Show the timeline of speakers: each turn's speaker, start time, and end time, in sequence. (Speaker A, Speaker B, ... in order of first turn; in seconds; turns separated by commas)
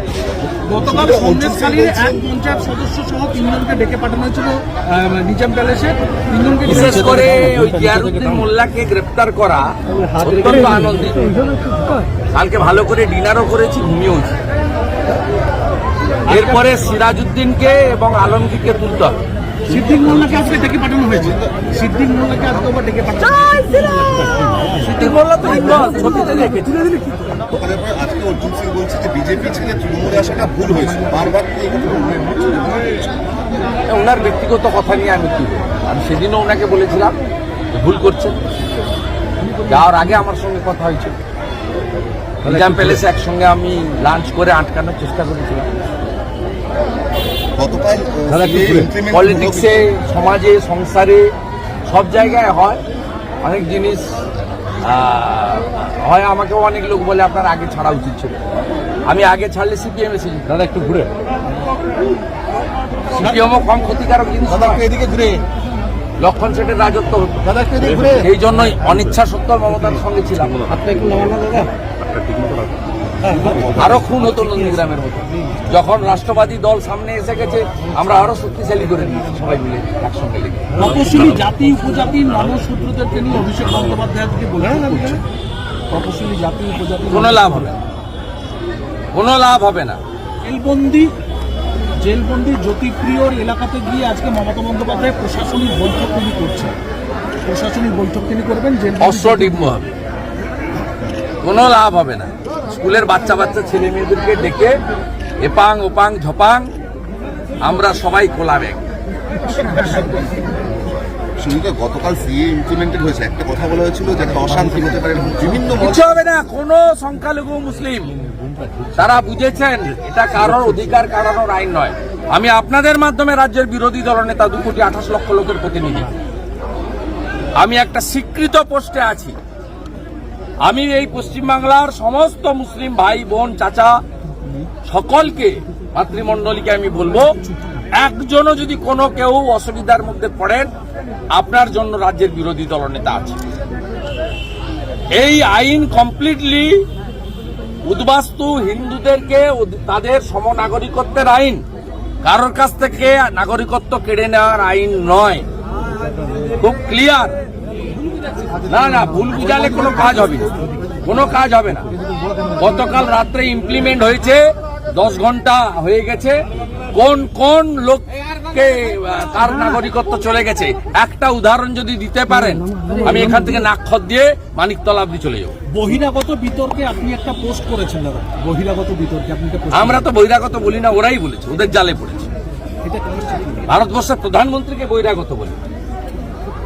Speaker A: 0.6-8.4, Speaker B: 0.9-1.9, Speaker C: 6.6-11.5, Speaker A: 9.9-11.1, Speaker C: 12.3-14.4, Speaker C: 16.3-19.2, Speaker A: 16.3-16.7, Speaker A: 19.7-25.0, Speaker B: 20.0-21.6, Speaker C: 24.8-26.9, Speaker B: 27.4-33.3, Speaker C: 33.9-37.2, Speaker C: 37.7-38.4, Speaker A: 39.4-39.8, Speaker C: 39.7-41.2, Speaker C: 42.4-45.7, Speaker B: 47.5-49.9, Speaker C: 48.3-51.3, Speaker C: 51.9-52.8, Speaker C: 53.4-54.2, Speaker C: 54.8-58.4, Speaker C: 59.0-61.1, Speaker C: 63.1-64.9, Speaker B: 64.7-65.4, Speaker C: 66.2-67.4, Speaker B: 67.6-68.2, Speaker C: 68.0-70.9, Speaker A: 70.8-71.7, Speaker A: 73.3-73.7, Speaker C: 73.8-80.8, Speaker A: 80.7-85.2, Speaker A: 85.9-87.8, Speaker C: 87.1-87.8, Speaker C: 89.1-90.0, Speaker A: 90.4-91.1, Speaker A: 92.0-96.8, Speaker A: 97.4-99.6, Speaker C: 99.0-99.9, Speaker C: 101.4-104.8, Speaker C: 105.4-106.7, Speaker C: 107.6-108.8, Speaker B: 109.6-110.0, Speaker B: 111.4-116.2, Speaker C: 115.8-118.2, Speaker C: 118.9-126.1, Speaker C: 127.6-129.4, Speaker C: 130.6-134.0, Speaker C: 134.8-137.3, Speaker C: 137.9-140.7, Speaker C: 141.3-143.4, Speaker C: 145.1-146.8, Speaker C: 147.8-151.6, Speaker C: 152.2-155.4, Speaker C: 156.6-157.3, Speaker C: 158.7-160.5, Speaker C: 161.0-161.9, Speaker C: 162.6-166.4, Speaker C: 166.9-175.6, Speaker A: 172.8-173.1, Speaker A: 175.7-180.0, Speaker C: 179.7-182.3, Speaker A: 182.8-183.6, Speaker C: 183.7-185.6